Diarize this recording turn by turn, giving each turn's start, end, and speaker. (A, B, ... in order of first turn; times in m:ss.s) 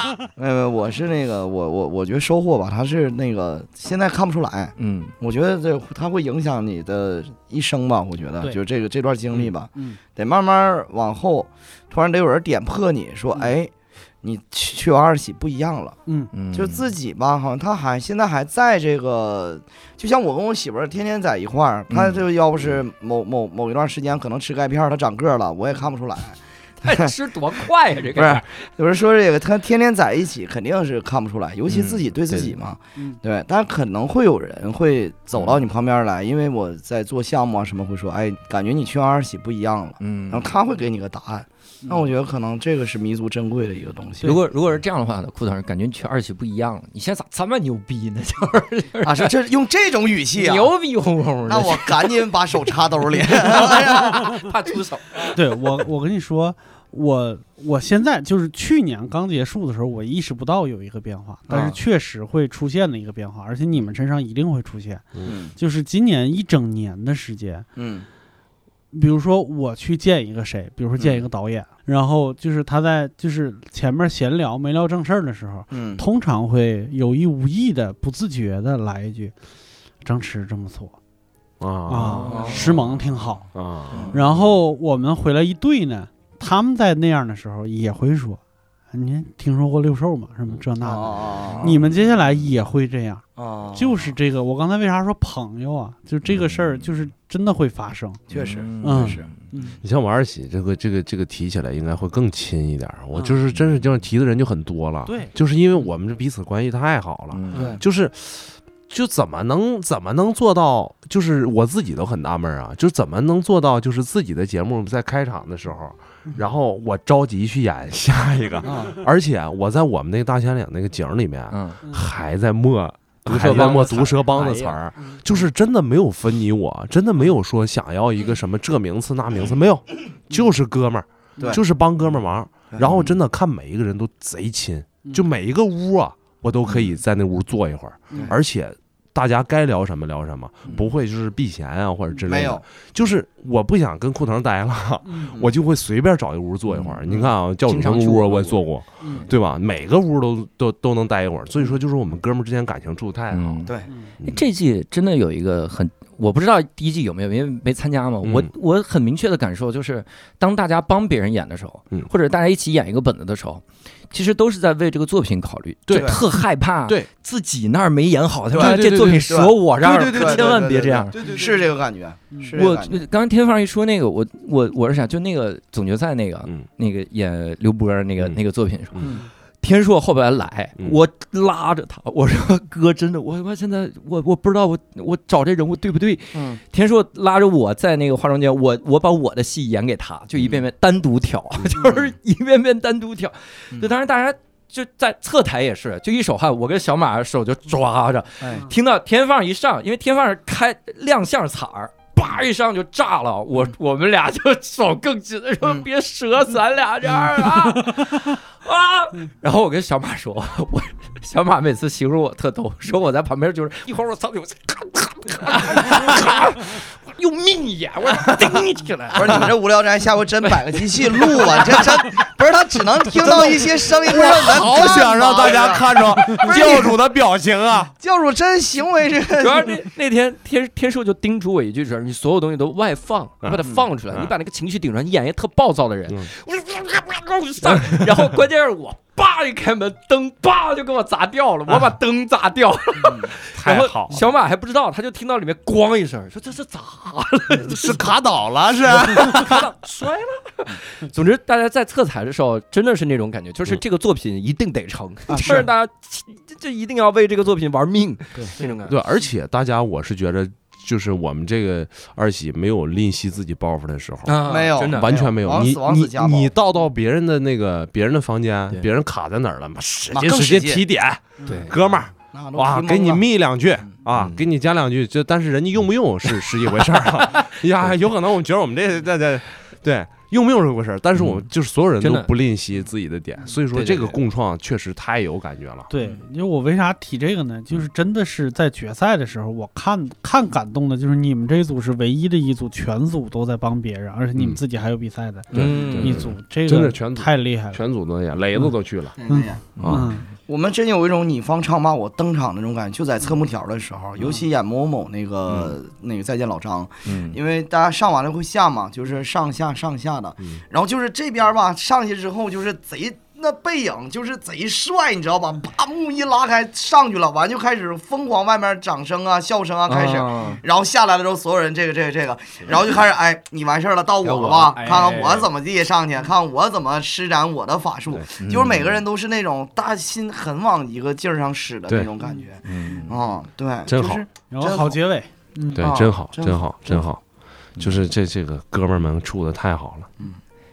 0:00.4-0:16.0 A
0:04.8-0:05.1 B
0:16.0-0:16.3 C
0:16.3-0:16.8 B
0:16.5-0:27.1 A
0:21.9-0:22.2 B
0:26.8-0:28.7 B
0:28.1-0:44.4 A
0:31.7-0:32.6 B
0:40.0-0:40.5 B
0:44.2-0:49.3 B
0:49.0-0:50.7 A
0:50.4-0:52.2 B
0:51.5-0:54.4 A
0:53.3-0:55.4 B
0:55.3-1:05.0 C
1:01.5-1:01.8 A
1:05.2-1:05.5 A
1:05.6-1:07.7 C
1:07.8-1:08.1 A
1:08.9-1:19.3 C
1:11.0-1:11.3 A
1:15.7-1:16.0 A
1:20.0-1:21.0 C
1:21.6-1:22.6 D
1:21.9-1:23.5 C
1:22.0-1:22.7 B
1:22.3-1:22.7 A
1:23.5-1:24.4 D
1:23.9-1:24.2 A
1:24.1-1:28.4 C
1:28.9-1:38.2 C
1:30.8-1:31.9 A
1:33.4-1:34.1 A
1:38.3-1:39.3 A
1:38.3-1:39.4 B
1:38.8-1:39.8 C
1:39.8-2:33.7 D
1:45.0-1:45.3 C
1:47.3-1:47.7 B
1:47.5-1:47.8 A
1:58.6-1:59.0 A
2:01.5-2:01.8 B
2:03.2-2:04.8 B
2:12.7-2:13.1 A
2:16.7-2:17.0 A
2:22.2-2:22.6 A
2:25.0-2:25.4 C
2:27.6-2:28.6 B
2:29.0-2:29.2 C
2:33.3-2:51.2 B
2:38.2-2:38.5 D
2:45.9-2:46.2 D
2:45.9-2:46.2 A
2:48.5-2:53.0 A
2:48.5-2:50.6 D
2:51.1-2:51.5 D
2:52.5-2:59.0 B
2:59.0-2:59.3 A
2:59.6-3:39.5 B
3:06.3-3:06.6 A
3:18.4-3:18.7 A
3:39.1-3:47.0 A
3:40.4-3:42.1 B
3:43.2-3:47.9 D
3:48.0-3:49.8 A
3:49.4-4:08.1 B
3:53.4-3:54.3 D
3:57.8-3:58.3 D
4:03.0-4:03.3 A
4:03.5-4:04.3 D
4:07.6-4:09.7 D
4:09.0-4:19.0 B
4:15.3-4:15.7 A
4:18.9-4:45.9 D
4:24.2-4:25.1 B
4:24.4-4:26.5 A
4:30.1-4:30.8 A
4:31.5-4:31.8 B
4:32.3-4:33.2 A
4:34.1-4:34.4 B
4:41.2-4:41.4 B
4:42.0-4:42.3 B
4:43.7-4:44.2 B
4:45.9-4:57.8 C
4:55.5-4:56.3 B
4:55.5-4:59.2 D
4:55.6-4:55.9 A
4:59.2-4:59.8 A
4:59.3-5:00.3 C
4:59.8-5:00.1 D
5:00.4-5:35.0 A
5:07.0-5:07.4 B
5:19.9-5:20.6 B
5:24.2-5:25.5 B
5:28.4-5:29.0 B
5:32.2-5:33.0 C
5:32.6-5:33.2 B
5:33.9-5:34.2 D
5:34.5-5:35.9 C
5:35.7-5:37.2 D
5:35.8-5:37.1 A
5:37.8-5:40.1 D
5:37.8-5:38.0 B